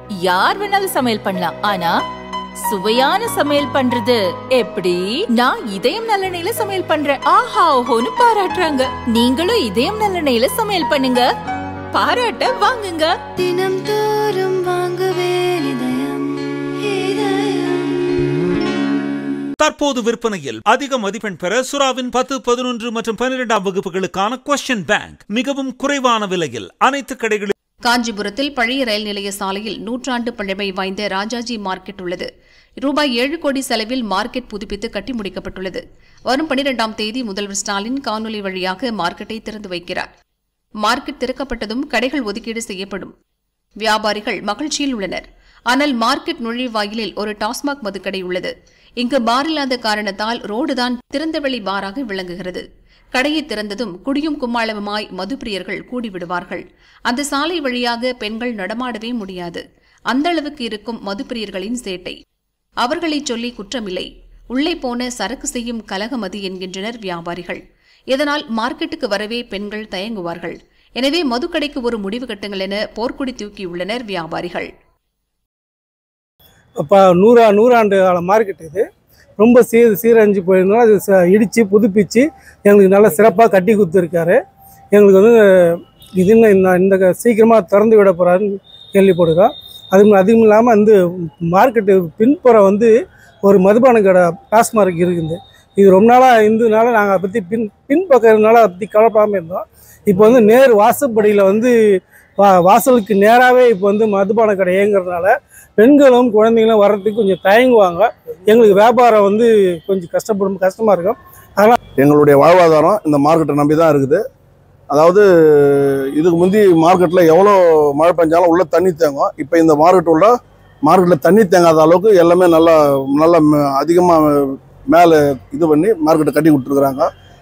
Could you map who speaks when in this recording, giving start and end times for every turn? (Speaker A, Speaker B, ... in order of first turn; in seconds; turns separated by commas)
Speaker A: 0.2-1.9, Speaker A: 2.6-11.3, Speaker A: 11.9-13.1, Speaker B: 13.4-18.6, Speaker C: 19.6-27.5, Speaker D: 27.9-32.3, Speaker D: 32.8-40.1, Speaker D: 40.8-43.1, Speaker D: 43.8-48.5, Speaker D: 49.0-52.6, Speaker D: 53.1-62.2, Speaker D: 62.8-67.6, Speaker D: 68.1-74.7, Speaker E: 76.8-78.8, Speaker E: 79.4-84.4, Speaker E: 84.9-92.9, Speaker E: 93.4-111.8, Speaker F: 112.0-114.2, Speaker F: 114.9-120.3, Speaker F: 120.8-127.1